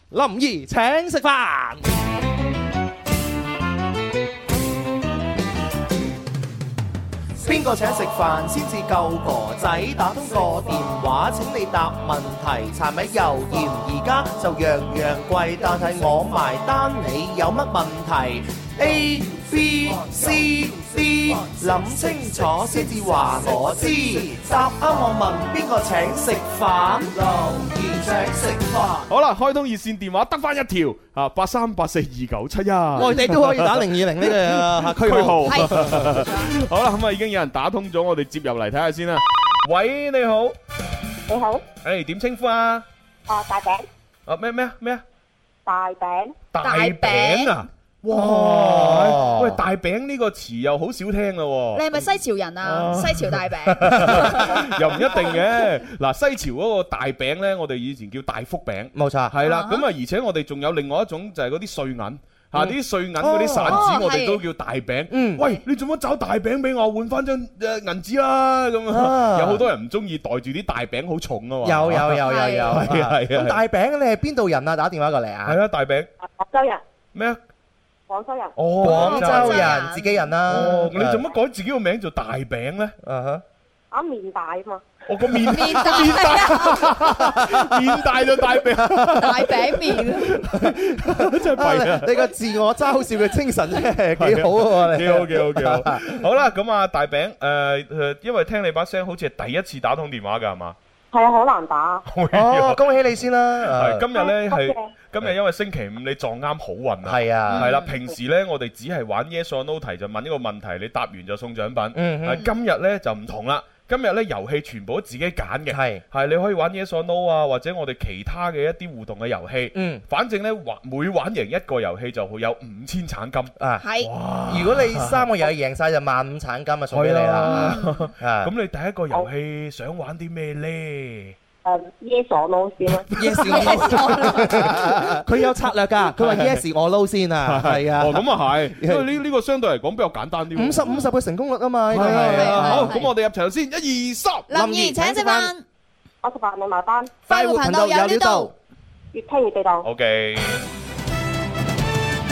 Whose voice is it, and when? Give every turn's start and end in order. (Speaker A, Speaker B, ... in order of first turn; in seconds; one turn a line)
Speaker A: 0.1-1.8
Speaker A: 7.4-29.1
Speaker B: 29.1-40.5
Speaker A: 33.0-36.1
Speaker C: 35.5-36.5
Speaker D: 41.3-41.6
Speaker B: 41.8-42.9
Speaker D: 43.3-43.8
Speaker B: 44.3-45.0
Speaker D: 45.6-46.4
Speaker B: 46.5-51.9
Speaker C: 46.6-47.5
Speaker A: 48.1-49.6
Speaker C: 51.7-54.7
Speaker B: 52.6-73.6
Speaker A: 54.0-54.6
Speaker A: 58.9-59.4
Speaker C: 59.4-59.9
Speaker A: 62.5-63.9
Speaker C: 63.7-64.4
Speaker A: 65.1-65.4
Speaker A: 68.9-69.6
Speaker A: 71.6-75.6
Speaker C: 72.2-72.8
Speaker B: 75.4-76.1
Speaker D: 76.4-76.8
Speaker B: 77.1-77.4
Speaker D: 78.1-78.5
Speaker B: 78.5-82.9
Speaker A: 78.8-81.2
Speaker C: 78.8-80.0
Speaker A: 83.0-83.4
Speaker D: 83.9-84.8
Speaker B: 85.0-92.3
Speaker C: 85.4-86.9
Speaker A: 87.0-87.8
Speaker A: 88.6-89.2
Speaker C: 89.2-90.4
Speaker A: 90.5-96.1
Speaker B: 94.2-100.8
Speaker D: 101.1-102.0
Speaker B: 102.1-102.8
Speaker A: 102.3-104.0
Speaker B: 103.6-125.4
Speaker D: 104.1-104.9
Speaker A: 107.0-107.7
Speaker C: 107.5-107.9
Speaker A: 111.9-112.4
Speaker A: 115.7-116.0
Speaker A: 119.7-120.0
Speaker A: 123.6-123.8
Speaker C: 123.8-124.1
Speaker A: 124.5-128.5
Speaker B: 126.9-131.3
Speaker C: 127.5-128.0
Speaker D: 131.6-133.1
Speaker B: 132.9-135.4
Speaker A: 133.2-139.1
Speaker C: 133.4-134.7
Speaker B: 136.0-136.6
Speaker B: 137.4-141.0
Speaker A: 140.5-143.1
Speaker C: 140.9-141.1
Speaker B: 141.9-144.5
Speaker C: 141.9-143.1
Speaker C: 144.5-145.6
Speaker A: 144.5-145.5
Speaker D: 146.2-147.1
Speaker C: 147.3-148.5
Speaker A: 147.3-148.5
Speaker D: 149.1-149.9
Speaker B: 149.8-150.6